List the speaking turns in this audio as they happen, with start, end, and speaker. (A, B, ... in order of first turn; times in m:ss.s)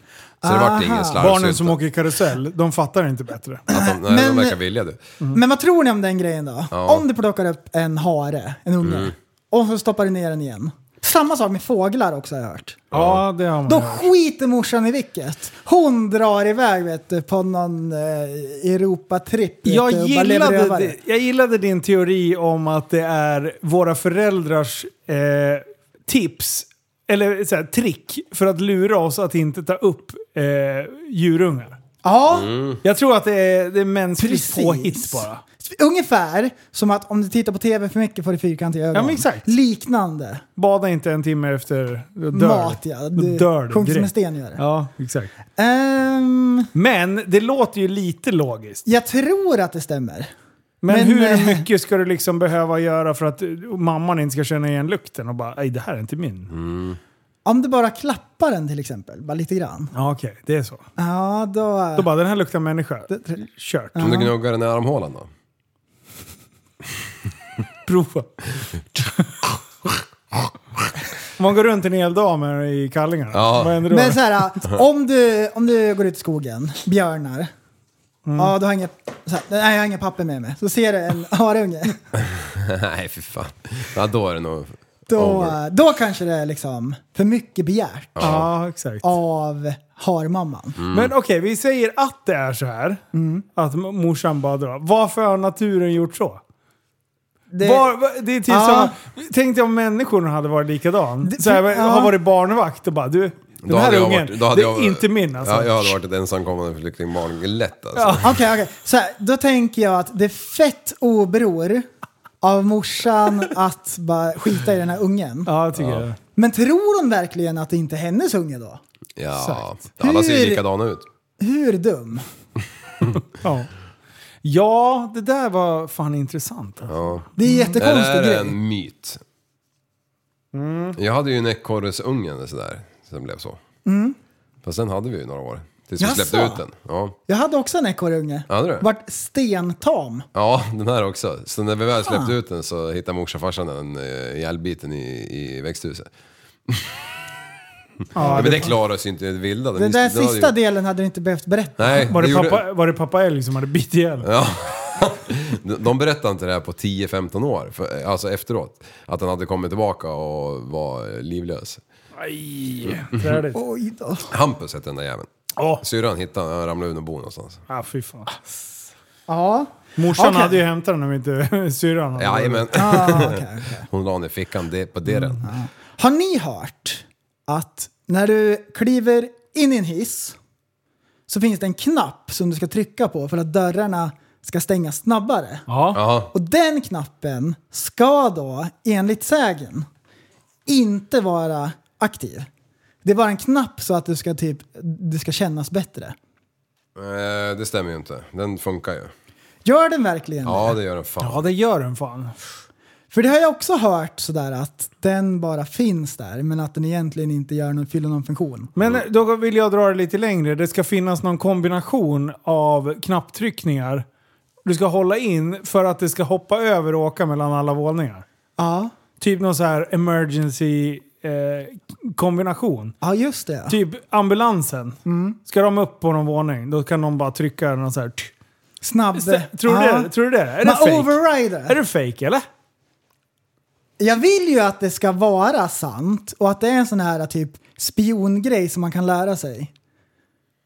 0:00.4-0:01.2 A
0:00.4-0:01.8 B
0:01.2-0:03.6 C
0:03.7-0:05.0 B
0:03.7-0:04.6 A
0:05.3-0:12.8 A
0:06.7-0:07.0 B
0:08.8-0:09.1 B
0:12.9-0:13.2 B
0:12.9-0:14.1 C
0:13.7-0:21.0 A
0:19.6-0:31.8 C
0:32.0-0:32.5 A
0:32.3-0:32.8 B
0:32.8-0:35.4 C
0:34.2-0:40.4 A
0:38.9-0:39.5 C
0:40.6-0:45.3 C
0:42.3-0:44.6 A
0:45.6-0:46.7 A
0:46.7-0:48.8 C
0:48.9-0:50.3 A
0:50.8-0:56.5 C
0:50.9-0:51.7 A
0:56.5-0:57.0 B
0:57.4-0:59.9 A
0:59.9-1:00.8 C
1:01.0-1:02.1 A
1:02.0-1:04.0 C
1:03.1-1:03.4 A
1:04.0-1:04.3 A
1:04.0-1:05.3 B
1:07.9-1:08.4 C
1:09.0-1:09.5 C
1:11.4-1:14.2 C
1:13.3-1:13.9 B
1:13.9-1:17.5 A
1:18.3-1:18.6 C
1:18.4-1:22.0 A
1:22.2-1:25.6 B
1:25.1-1:28.4 A
1:28.2-1:28.5 B
1:28.2-1:29.0 C
1:29.0-1:30.8 A
1:30.8-1:31.1 B
1:30.9-1:33.0 C
1:33.1-1:33.4 A
1:33.6-1:36.4 C
1:37.5-1:37.9 A
1:37.6-1:46.0 C
1:38.5-1:38.9 A
1:41.2-1:42.1 A
1:43.6-1:48.3 B
1:48.0-1:48.3 C
1:48.2-1:51.9 A
1:52.4-1:55.5 A
1:55.5-1:56.2 C
1:55.8-1:56.1 B
1:56.4-1:58.8 A
1:59.2-2:01.1 B
1:59.4-1:59.7 C
2:00.0-2:00.6 A
2:01.4-2:02.2 A
2:03.4-2:03.7 C
2:04.4-2:06.9 C
2:06.9-2:09.2 B
2:07.4-2:08.6 A
2:07.4-2:07.8 C
2:10.5-2:11.0 C
2:11.0-2:13.6 B
2:13.8-2:14.2 A
2:14.6-2:17.2 B
2:16.0-2:16.6 A
2:17.3-2:20.2 A
2:18.5-2:18.9 B
2:20.4-2:26.1 B
2:22.0-2:22.3 A
2:26.7-2:26.9 B
2:28.2-2:28.7 C
2:28.2-2:28.7 A
2:28.3-2:30.6 B
2:29.8-2:32.2 A
2:31.8-2:32.7 B
2:32.1-2:34.3 C
2:34.2-2:41.8 B
2:42.2-2:43.6 C
2:43.1-2:43.4 B
2:43.5-2:44.3 A
2:44.3-2:45.3 B
2:45.6-2:45.8 C
2:45.8-2:47.6 B
2:47.7-2:48.4 C
2:49.3-2:50.6 A
2:50.0-2:53.0 C
2:52.2-2:55.5 B
2:52.8-2:53.9 A
2:55.1-2:55.4 C
2:55.4-3:00.4 A
3:01.3-3:05.7 A
3:05.7-3:06.0 C
3:05.9-3:06.3 B
3:06.3-3:09.9 A
3:10.7-3:12.5 A
3:13.0-3:16.2 A
3:17.0-3:19.1 B
3:19.6-3:20.8 A
3:20.4-3:21.5 B
3:21.2-3:22.4 C
3:23.1-3:28.7 A
3:28.8-3:34.0 C
3:28.8-3:29.0 B
3:34.6-3:38.2 C
3:38.6-3:38.9 A
3:39.2-3:43.0 C
3:43.0-3:43.8 A
3:43.7-3:48.3 C
3:45.1-3:45.4 A
3:48.8-3:50.1 A
3:49.2-3:52.4 C
3:50.6-3:51.8 A
3:54.0-3:59.7 A